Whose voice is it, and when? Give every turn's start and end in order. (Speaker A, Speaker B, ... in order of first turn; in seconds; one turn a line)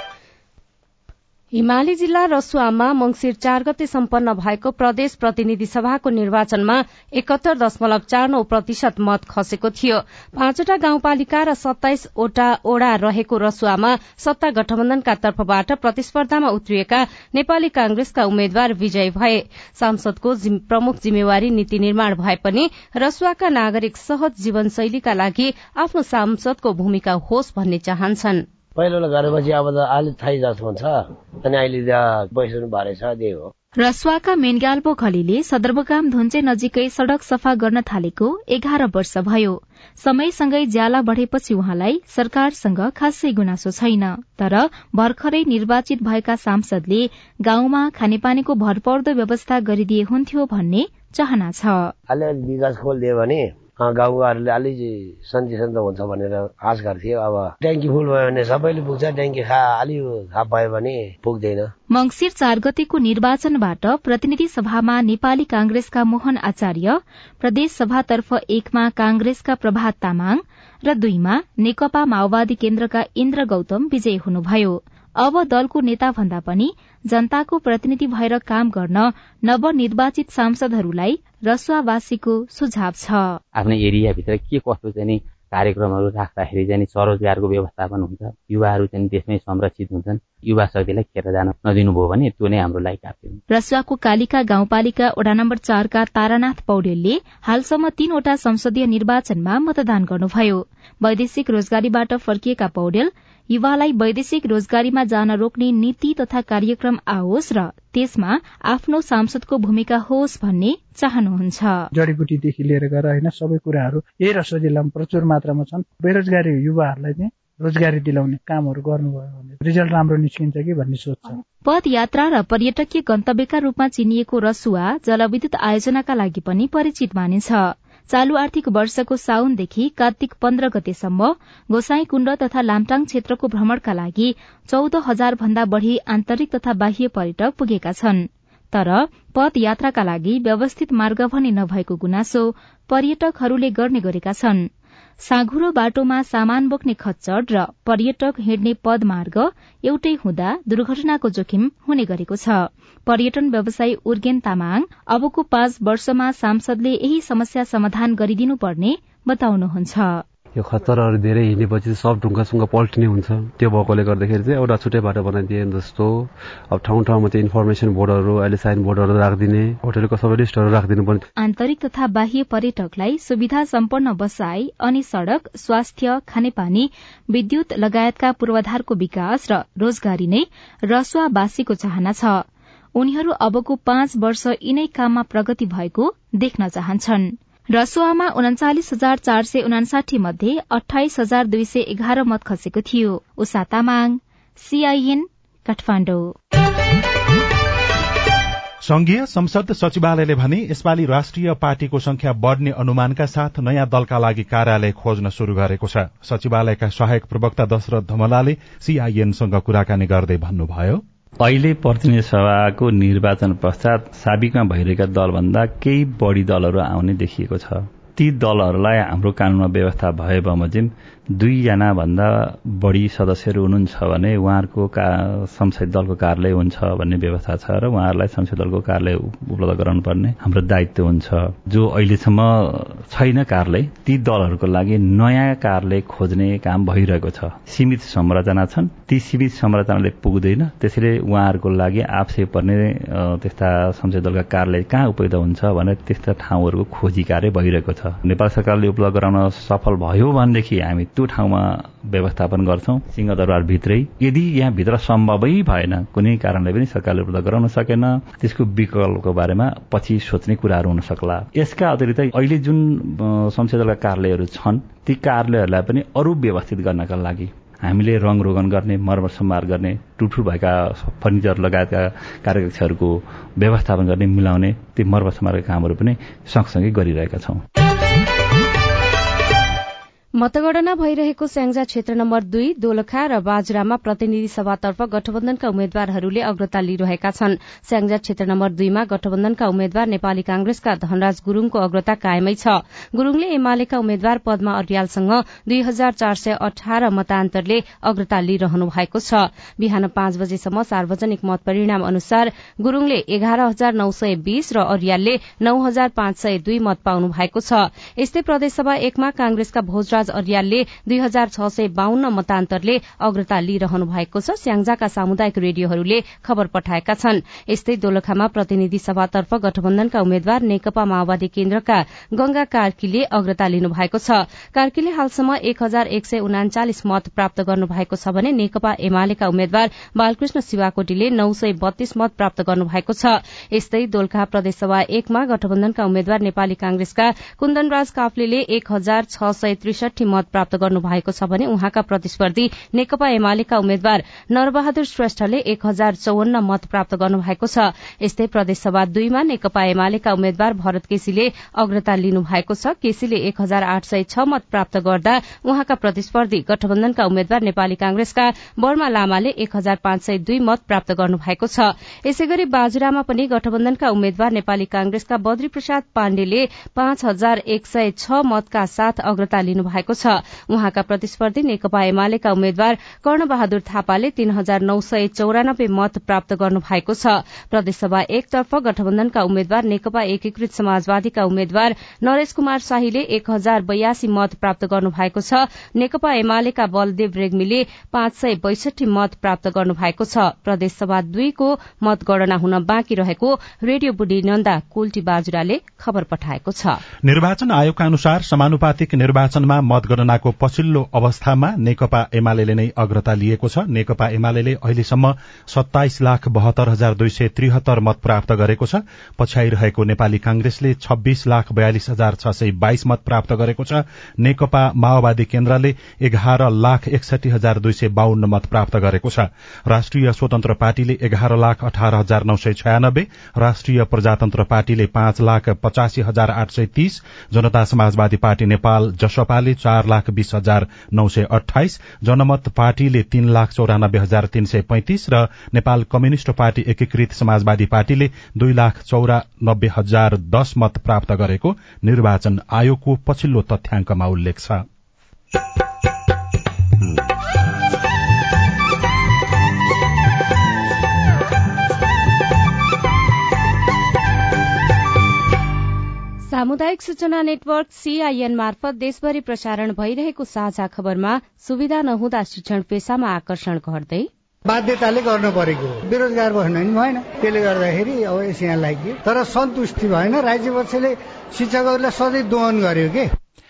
Speaker A: 1.5-28.4
Speaker B: 28.8-33.5
Speaker C: 33.8-51.9
Speaker B: 52.1-61.7
Speaker C: 61.9-83.4
Speaker D: 83.5-93.4
Speaker C: 93.5-111.9
Speaker E: 111.9-121.4
Speaker C: 121.7-144.7
Speaker C: 145.2-160.2
Speaker F: 160.6-171.2
Speaker C: 171.4-182.4
Speaker C: 182.9-196.3
Speaker G: 198.8-211.0
Speaker H: 211.4-277.6
Speaker A: 280.4-397.0
Speaker G: 397.2-444.8
Speaker A: 456.5-464.3
Speaker I: 464.7-473.4